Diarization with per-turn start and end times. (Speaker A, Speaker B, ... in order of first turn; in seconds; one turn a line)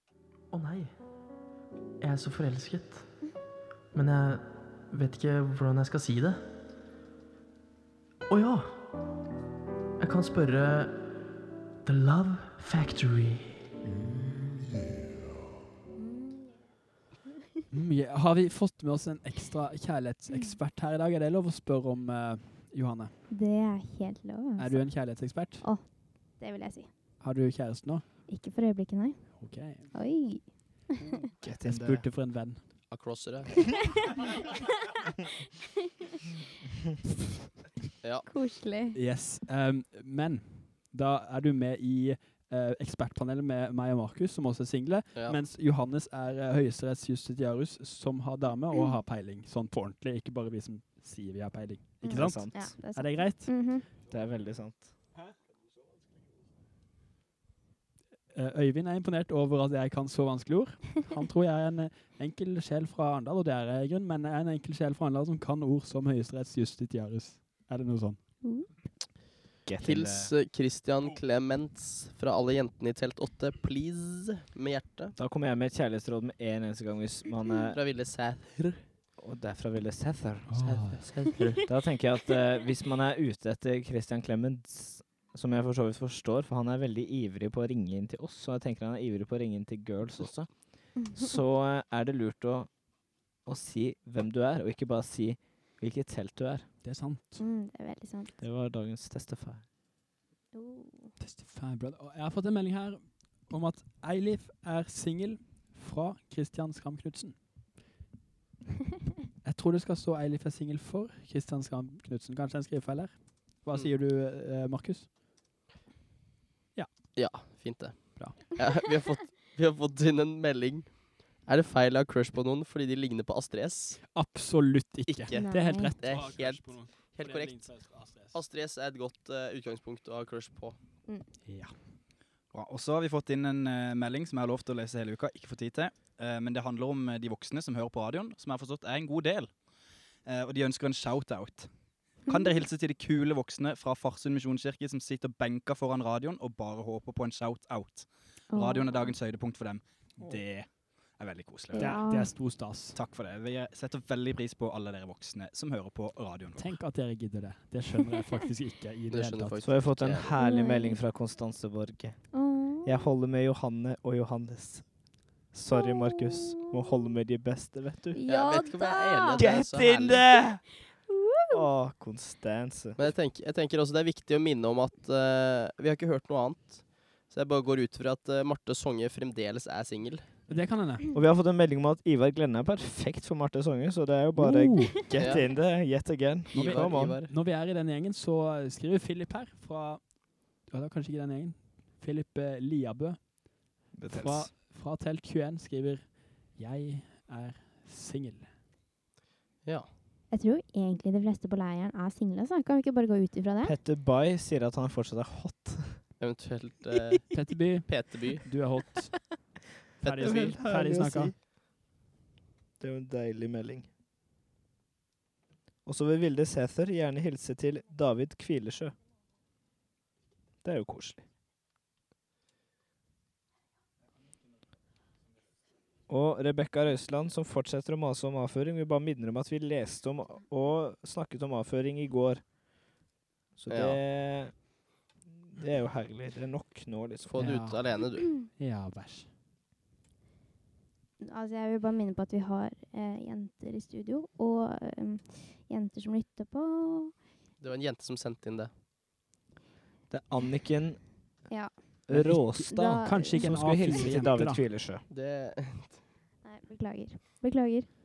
Speaker A: 2.1-2.6
Speaker A: 4.0-6.4
Speaker A: 8.3-8.7
Speaker A: 10.1-11.0
Speaker A: 11.9-13.5
Speaker B: 13.9-14.2
Speaker C: 16.0-16.4
Speaker B: 17.7-23.1
Speaker C: 23.3-26.9
Speaker B: 24.6-25.7
Speaker B: 27.2-28.1
Speaker C: 28.3-30.9
Speaker B: 29.4-29.9
Speaker D: 31.4-32.1
Speaker B: 31.5-32.9
Speaker E: 32.9-33.8
Speaker C: 33.6-34.0
Speaker E: 38.0-38.3
Speaker C: 38.3-39.0
Speaker B: 38.9-53.6
Speaker E: 45.1-45.4
Speaker D: 52.0-52.8
Speaker C: 52.0-53.9
Speaker D: 54.0-54.9
Speaker B: 58.3-68.2
Speaker C: 68.4-68.8
Speaker D: 69.6-70.3
Speaker E: 69.8-75.1
Speaker D: 75.2-77.8
Speaker E: 77.7-78.8
Speaker D: 79.2-80.8
Speaker B: 80.5-81.0
Speaker E: 80.7-81.6
Speaker D: 81.7-92.7
Speaker C: 91.0-91.3
Speaker D: 93.5-96.7
Speaker B: 96.8-97.4
Speaker C: 97.4-98.3
Speaker D: 98.4-99.6
Speaker C: 100.5-101.1
Speaker B: 101.2-107.4
Speaker B: 109.4-115.1
Speaker B: 116.8-117.1
Speaker E: 117.1-124.0
Speaker B: 124.1-128.4
Speaker E: 125.1-125.5
Speaker C: 125.3-126.0
Speaker E: 126.0-130.8
Speaker B: 131.4-131.7
Speaker F: 132.5-139.6
Speaker F: 140.3-152.0
Speaker C: 142.3-142.5
Speaker C: 148.5-149.1
Speaker B: 150.2-150.4
Speaker C: 151.7-152.5
Speaker B: 151.8-153.0
Speaker F: 152.9-156.7
Speaker B: 156.6-159.6
Speaker E: 159.1-160.3
Speaker D: 159.6-164.8
Speaker C: 160.3-161.0
Speaker C: 162.3-162.9
Speaker D: 165.5-168.2
Speaker C: 165.7-166.7
Speaker C: 168.1-169.7
Speaker E: 168.3-170.2
Speaker D: 169.4-170.7
Speaker C: 171.1-171.6
Speaker D: 171.5-173.1
Speaker E: 173.0-180.4
Speaker B: 180.5-181.1
Speaker D: 181.1-187.2
Speaker B: 184.4-185.0
Speaker E: 185.2-185.5
Speaker E: 186.5-187.3
Speaker B: 186.5-198.5
Speaker D: 193.9-194.5
Speaker E: 199.6-199.9
Speaker C: 200.3-203.8
Speaker D: 203.6-206.0
Speaker E: 206.2-208.5
Speaker B: 207.3-209.4
Speaker B: 210.0-211.3
Speaker E: 210.0-210.6
Speaker D: 210.2-211.4
Speaker D: 212.8-213.9
Speaker D: 215.8-219.0
Speaker D: 220.6-221.2
Speaker D: 226.1-232.4
Speaker D: 233.6-234.8
Speaker E: 233.7-234.0
Speaker D: 235.5-237.7
Speaker E: 237.2-238.3
Speaker B: 237.4-239.3
Speaker C: 241.2-247.1
Speaker E: 247.6-248.7
Speaker D: 250.1-251.1
Speaker C: 251.5-252.1
Speaker D: 252.1-255.0
Speaker B: 252.1-254.7
Speaker C: 252.7-253.4
Speaker E: 255.1-256.0
Speaker C: 256.4-257.9